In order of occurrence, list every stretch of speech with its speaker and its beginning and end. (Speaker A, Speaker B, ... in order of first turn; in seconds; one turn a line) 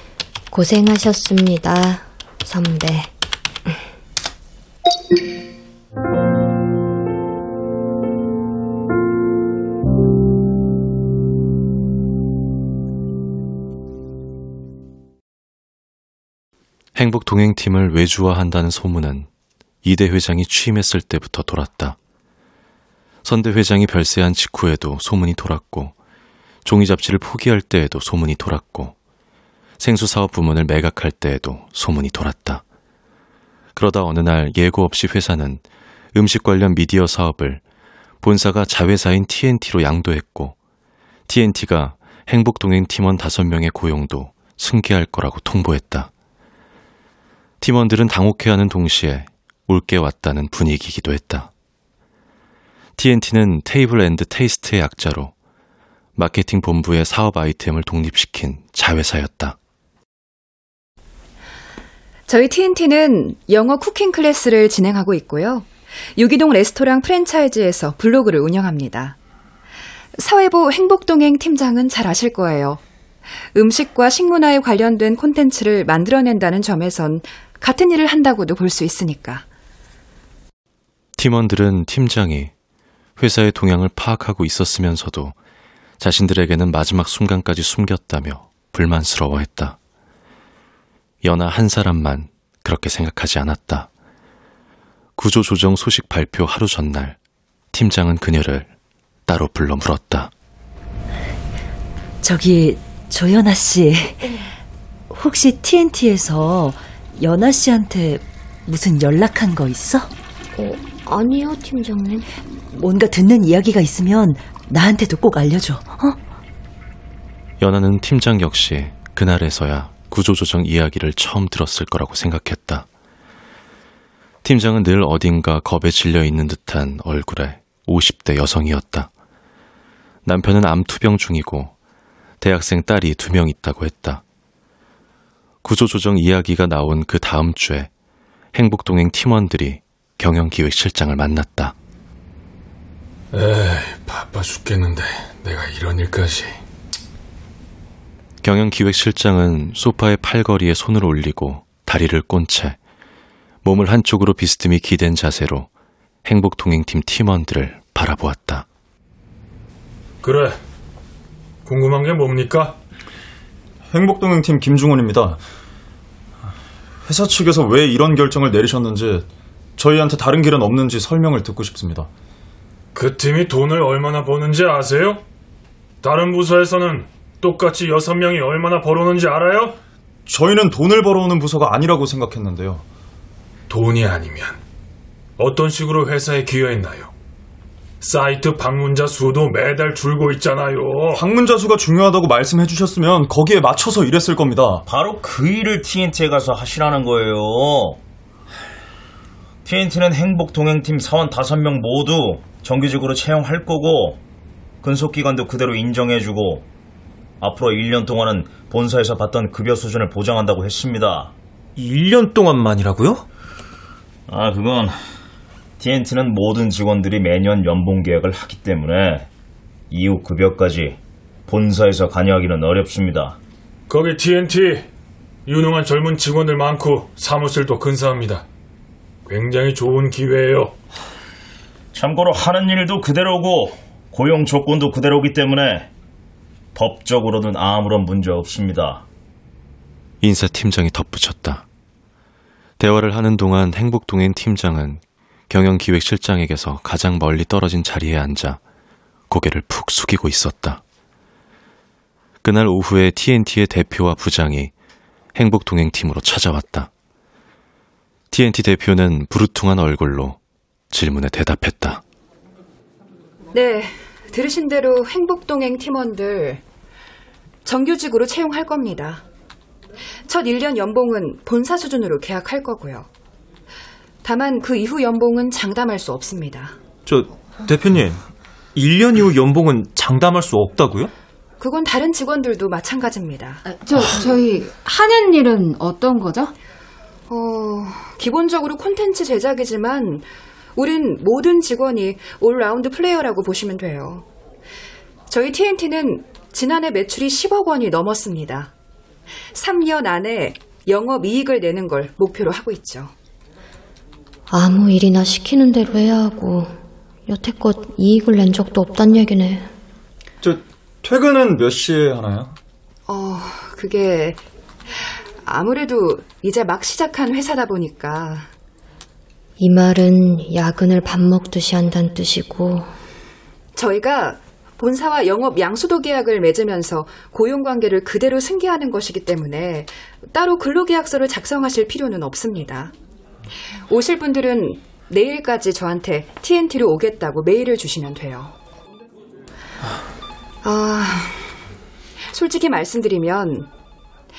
Speaker A: 0.5-3.1
Speaker B: 16.9-19.3
Speaker B: 19.8-22.0
Speaker B: 23.2-25.9
Speaker B: 26.6-28.9
Speaker B: 29.8-32.6
Speaker B: 33.8-37.6
Speaker B: 38.2-40.6
Speaker B: 41.3-46.1
Speaker B: 47.6-51.5
Speaker B: 53.0-55.3
Speaker B: 56.1-59.6
Speaker C: 62.3-69.2
Speaker C: 70.2-72.8
Speaker C: 73.5-79.5
Speaker B: 81.2-82.5
Speaker B: 83.2-85.4
Speaker B: 86.0-89.8
Speaker B: 91.2-93.9
Speaker B: 95.2-97.2
Speaker B: 97.7-98.7
Speaker B: 99.3-100.3
Speaker D: 102.2-104.3
Speaker D: 105.1-110.1
Speaker A: 110.5-112.3
Speaker D: 112.7-116.2
Speaker B: 117.6-122.9
Speaker B: 124.4-129.1
Speaker B: 130.2-131.7
Speaker B: 132.4-134.2
Speaker B: 135.6-137.9
Speaker B: 138.5-141.8
Speaker E: 143.3-146.6
Speaker B: 148.4-152.8
Speaker B: 153.6-155.7
Speaker B: 156.2-158.7
Speaker E: 160.2-160.6
Speaker E: 161.6-162.8
Speaker F: 163.9-165.4
Speaker F: 167.0-172.1
Speaker E: 172.9-175.2
Speaker E: 176.0-179.8
Speaker F: 180.3-182.8
Speaker E: 183.7-184.6
Speaker E: 185.4-187.1
Speaker E: 188.0-191.2
Speaker F: 191.1-194.8
Speaker G: 194.9-198.0
Speaker G: 199.6-204.2
Speaker G: 204.8-206.6
Speaker G: 207.4-211.3
Speaker H: 211.8-213.2
Speaker G: 214.3-215.0
Speaker G: 215.8-219.3
Speaker G: 219.9-223.4
Speaker E: 223.9-224.9
Speaker E: 225.5-228.4
Speaker E: 229.3-230.7
Speaker G: 231.9-235.9
Speaker G: 236.8-239.0
Speaker B: 240.2-241.6
Speaker B: 242.8-248.6
Speaker B: 249.3-250.8
Speaker B: 252.4-254.7
Speaker B: 255.3-256.9
Speaker B: 258.3-260.4
Speaker B: 260.9-262.0
Speaker C: 263.5-266.6
Speaker C: 267.6-269.2
Speaker C: 270.3-273.1
Speaker C: 274.2-276.8
Speaker H: 277.1-278.2
Speaker H: 278.8-281.1
Speaker C: 281.6-283.6
Speaker I: 283.6-286.5
Speaker C: 287.3-294.2
Speaker C: 295.3-298.7
Speaker C: 299.5-303.1
Speaker A: 304.5-306.7
Speaker A: 307.3-309.7
Speaker F: 310.4-312.5
Speaker C: 313.1-314.4
Speaker C: 315.4-318.5
Speaker A: 319.6-322.9
Speaker C: 323.8-332.9
Speaker C: 333.9-338.6
Speaker C: 340.6-341.4
Speaker C: 342.3-343.7